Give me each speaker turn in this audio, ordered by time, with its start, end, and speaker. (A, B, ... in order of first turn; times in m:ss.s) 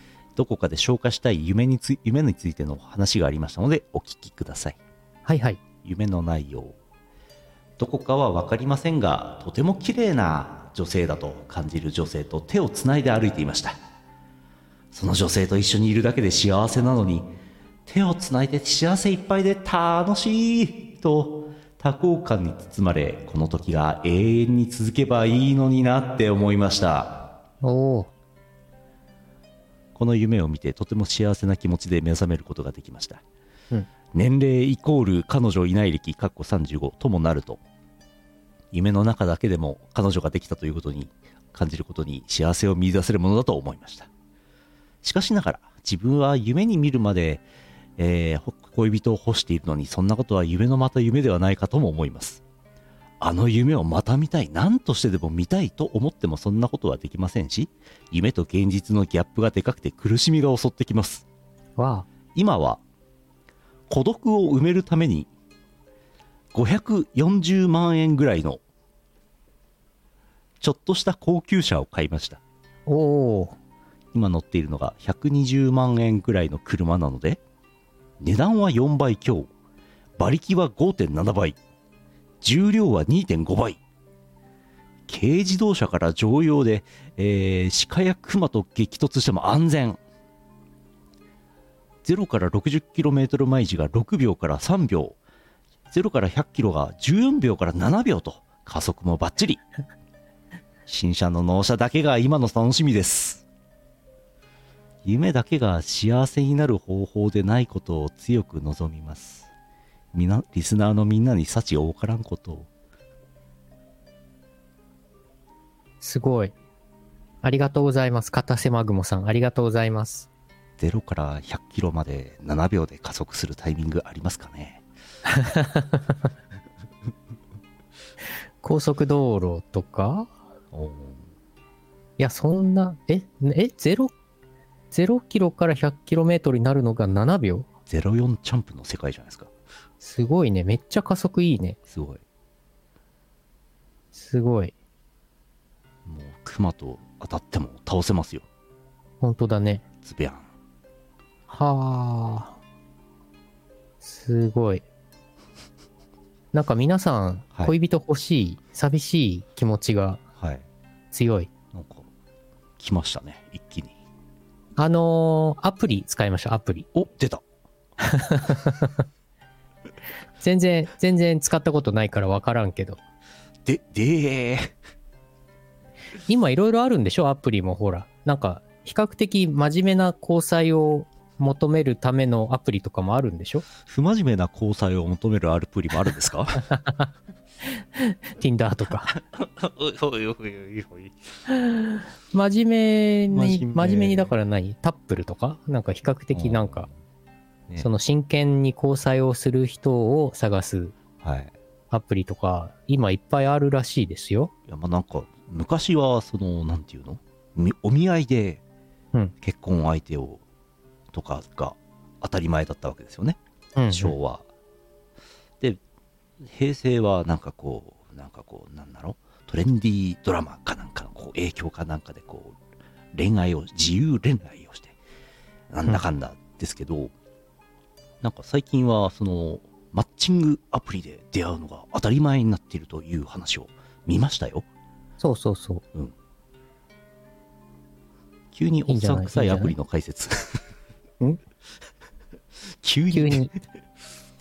0:00.4-0:04.8 A
0:05.2-0:05.6 B
0:05.8-0:06.8 A
0:07.8-0:13.8 A
0:14.9-0:17.3 A
0:17.8-0:27.3 A
0:27.6-0:28.1 B
0:29.9-0:33.2 A
0:34.1-0:37.6 A
0:38.7-0:44.1 A
0:45.0-0:47.4 A
0:48.0-0:52.4 A
0:53.2-1:01.2 A
1:01.8-1:02.1 B
1:02.3-1:02.8 A
1:03.9-1:05.3 A
1:06.5-1:08.6 A
1:10.6-1:12.4 A
1:12.8-1:13.6 B
1:14.1-1:17.4 A
1:18.2-1:19.5 A
1:20.2-1:21.6 A
1:22.4-1:23.8 A
1:25.1-1:30.0 A
1:32.0-1:35.2 A
1:35.9-1:39.6 A
1:40.9-1:43.4 A
1:45.0-1:49.5 A
1:50.1-1:52.7 A
1:56.0-1:56.5 B
1:57.4-2:00.3 B
2:00.8-2:04.8 A
2:05.2-2:06.2 B
2:08.6-2:10.3 B
2:10.7-2:11.2 A
2:12.2-2:14.1 B
2:14.9-2:17.7 B
2:17.9-2:19.5 A
2:20.0-2:21.8 B
2:21.9-2:22.2 A
2:24.1-2:24.7 B
2:26.0-2:28.4 A
2:29.2-2:29.8 B
2:30.0-2:30.5 A
2:31.5-2:32.6 B
2:34.0-2:34.8 B
2:36.5-2:40.2 B
2:41.1-2:41.5 B
2:41.7-2:42.0 A
2:42.8-2:43.9 A
2:44.8-2:46.9 B
2:46.9-2:47.4 A
2:48.0-2:49.0 B
2:50.4-2:53.0 B
2:53.6-2:54.7 A
2:56.3-3:03.6 B
3:03.8-3:06.7 A
3:06.7-3:07.1 B
3:08.0-3:09.1 B
3:09.1-3:11.2 A
3:11.7-3:16.9 B
3:13.3-3:14.3 A
3:16.3-3:16.9 A
3:17.8-3:20.9 B
3:21.2-3:21.5 A
3:21.9-3:24.5 B
3:24.7-3:28.6 A
3:29.4-3:30.4 A
3:31.1-3:33.4 A
3:33.8-3:34.1 B
3:33.9-3:34.4 A
3:36.4-3:42.6 A
3:43.1-3:45.0 A
3:45.7-3:47.1 A
3:48.2-3:54.6 A
3:55.2-3:55.8 B
3:58.5-4:00.6 A
3:58.9-3:59.8 B
4:02.8-4:03.6 A
4:03.1-4:03.5 B